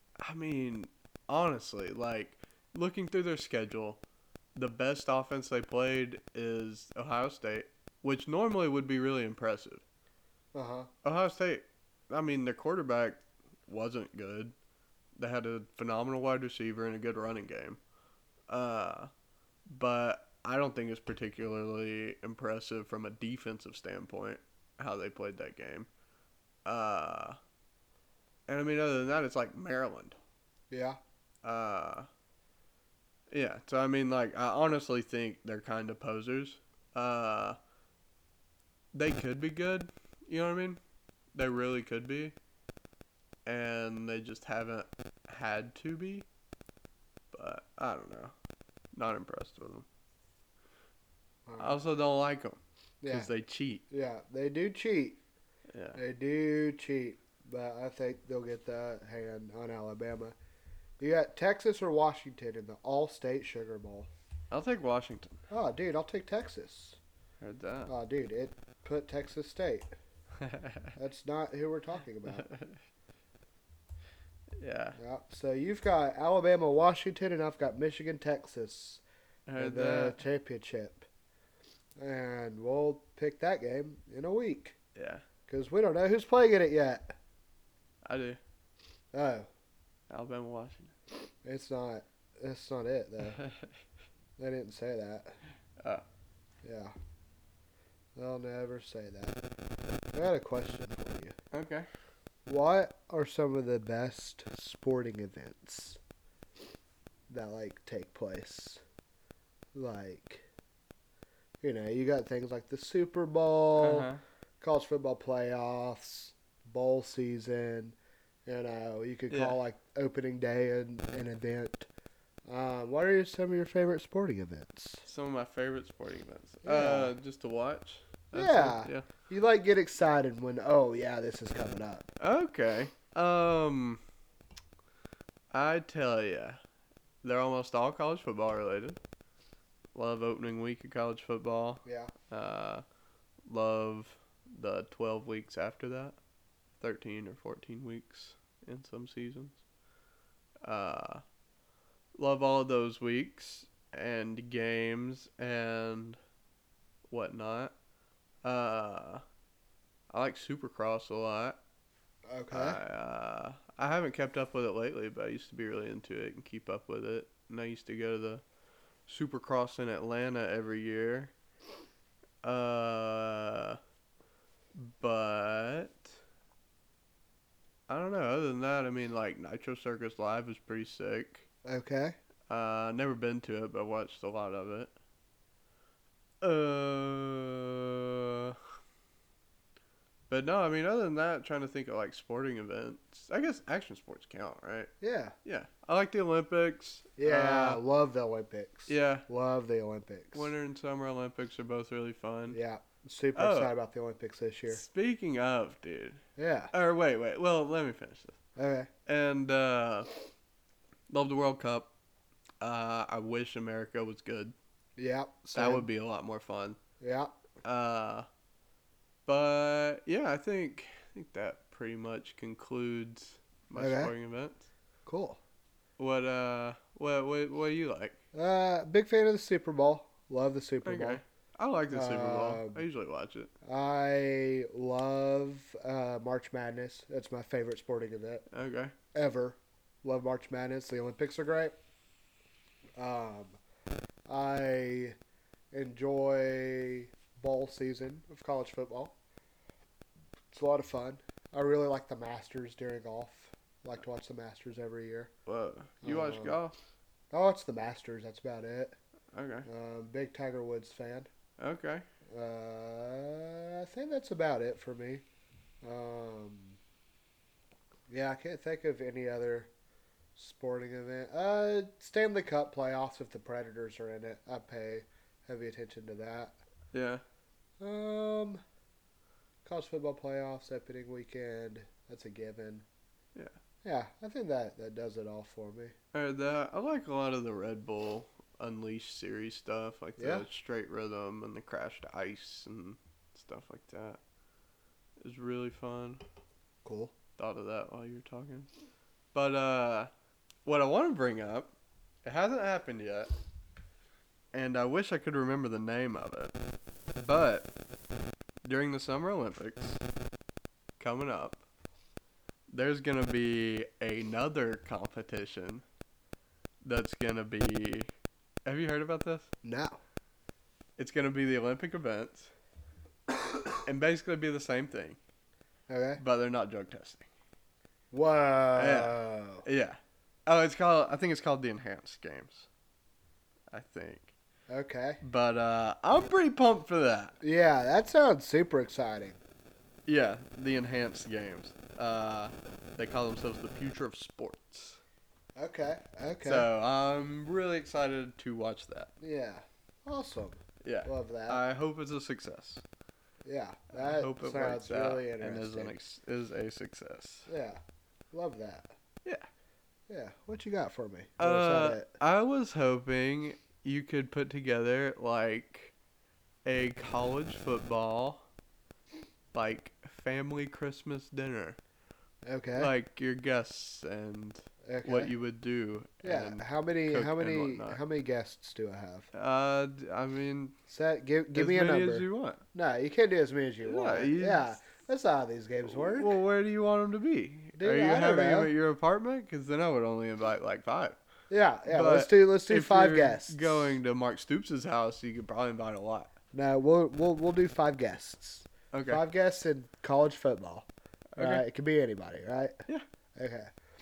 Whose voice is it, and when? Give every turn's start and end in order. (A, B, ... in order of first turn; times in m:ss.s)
0:00.2-0:04.0 A
0:04.5-0:09.8 A
0:10.5-0:10.9 B
0:11.0-0:14.5 A
0:15.2-0:17.8 A
0:18.5-0:19.1 A
0:19.6-0:25.9 A
0:26.6-0:27.4 A
0:28.5-0:30.2 A
0:30.7-0:31.0 B
0:31.4-0:32.1 A
0:33.3-0:37.6 A
0:38.9-0:40.8 A
0:41.3-0:42.3 A
0:43.4-0:46.3 A
0:47.3-0:48.3 A
0:48.9-0:49.9 A
0:51.5-0:51.7 B
0:51.6-0:53.8 A
0:53.0-0:53.3 B
0:53.9-0:55.2 B
0:55.7-0:56.0 A
0:55.9-1:00.3 B
1:01.0-1:04.1 B
1:04.5-1:05.4 A
1:05.5-1:07.0 B
1:07.4-1:07.9 A
1:07.9-1:09.9 B
1:10.4-1:10.9 A
1:11.0-1:12.5 B
1:12.3-1:12.8 A
1:14.6-1:15.0 A
1:15.0-1:19.0 B
1:19.5-1:20.2 A
1:19.6-1:21.1 B
1:22.0-1:24.8 B
1:24.9-1:25.2 A
1:25.5-1:27.1 B
1:28.0-1:28.4 A
1:29.1-1:29.5 B
1:30.1-1:30.9 A
1:31.4-1:33.4 B
1:33.3-1:33.7 A
1:34.4-1:35.4 B
1:35.8-1:36.0 A
1:36.6-1:36.9 B
1:38.2-1:39.4 B
1:40.1-1:41.3 B
1:41.5-1:41.9 A
1:42.5-1:46.0 B
1:47.3-1:48.8 B
1:49.7-1:50.4 B
1:51.6-1:54.1 B
1:53.8-1:54.2 A
1:54.6-2:01.9 B
1:59.3-1:59.6 A
2:02.5-2:05.0 B
2:05.0-2:09.1 A
2:06.6-2:07.1 B
2:08.3-2:12.1 B
2:12.2-2:14.0 A
2:15.5-2:16.6 A
2:17.2-2:19.0 A
2:19.9-2:22.8 A
2:21.8-2:22.1 B
2:23.4-2:26.2 A
2:26.8-2:29.6 A
2:30.6-2:31.2 A
2:32.2-2:36.2 A
2:37.1-2:37.7 A
2:38.4-2:39.2 A
2:40.1-2:41.6 A
2:42.3-2:42.8 B
2:42.5-2:48.4 A
2:49.1-2:51.3 A
2:52.4-2:53.8 A
2:54.7-2:56.2 A
2:57.9-3:01.4 A
3:01.6-3:02.2 B
3:02.5-3:04.9 A
3:06.4-3:08.6 A
3:10.3-3:14.9 A
3:15.0-3:15.3 B
3:15.4-3:17.8 A
3:17.2-3:20.5 B
3:18.9-3:19.2 A
3:20.3-3:22.6 A
3:22.5-3:24.8 B
3:23.3-3:23.7 A
3:24.7-3:26.2 A
3:26.4-3:26.7 B
3:26.7-3:28.4 A
3:28.6-3:28.9 B
3:29.0-3:30.1 A
3:31.1-3:31.9 A
3:32.6-3:34.5 A
3:35.0-3:35.9 B
3:35.5-3:36.8 A
3:37.0-3:37.3 B
3:37.6-3:38.3 A
3:39.2-3:44.7 A
3:43.8-3:44.1 B
3:45.0-3:45.4 B
3:46.0-3:48.2 A
3:48.3-3:51.2 B
3:50.8-3:53.5 A
3:51.9-3:52.8 B
3:53.6-3:58.4 B
3:58.5-3:58.9 A
3:59.1-4:01.7 B
4:03.0-4:03.6 B
4:04.3-4:05.2 B
4:05.7-4:09.1 B
4:10.5-4:15.3 B
4:15.4-4:16.8 A
4:16.0-4:16.6 B
4:17.3-4:19.0 B
4:19.3-4:19.7 A
4:19.6-4:21.3 B
4:21.6-4:22.0 A
4:22.3-4:25.2 B
4:25.8-4:26.8 B
4:28.1-4:29.7 B
4:30.4-4:36.6 B
4:36.9-4:37.2 A
4:37.8-4:38.6 B
4:39.6-4:42.8 B
4:43.8-4:45.9 B
4:46.1-4:54.2 A
4:50.2-4:50.5 B
4:55.2-4:56.2 A
4:56.8-4:57.1 B
4:57.4-4:58.7 A
4:59.3-5:00.1 A
5:00.6-5:01.7 A
5:02.2-5:03.3 A
5:04.5-5:06.6 A
5:07.2-5:07.7 A
5:08.6-5:10.0 A
5:11.0-5:11.6 A
5:12.7-5:15.8 A
5:16.8-5:18.1 A
5:18.6-5:19.5 A
5:19.6-5:20.0 B
5:21.0-5:22.5 A
5:23.8-5:25.2 A
5:25.9-5:26.2 B
5:26.2-5:27.3 A
5:28.1-5:29.6 B
5:28.7-5:32.7 A
5:33.7-5:34.3 A
5:34.7-5:35.2 B
5:35.2-5:37.3 A
5:37.4-5:39.4 B
5:40.0-5:45.0 A
5:45.6-5:46.7 B
5:46.4-5:49.1 A
5:49.2-5:51.6 B
5:50.8-5:52.8 A
5:53.4-5:55.9 B
5:53.9-5:57.5 A
5:57.5-5:57.8 B
5:58.3-5:58.9 B
6:00.1-6:02.1 B
6:01.4-6:05.9 A
6:06.6-6:08.4 A
6:09.5-6:11.8 A
6:12.4-6:12.9 B
6:12.8-6:18.0 A
6:14.8-6:15.3 B
6:16.2-6:19.3 B
6:19.3-6:20.8 A
6:20.9-6:26.4 B
6:21.5-6:22.6 A
6:23.8-6:24.7 A
6:25.8-6:31.2 A
6:27.8-6:28.7 B
6:31.5-6:34.0 B
6:31.9-6:36.3 A
6:36.5-6:42.8 B
6:38.9-6:39.2 A
6:41.3-6:41.6 A
6:43.3-6:43.7 B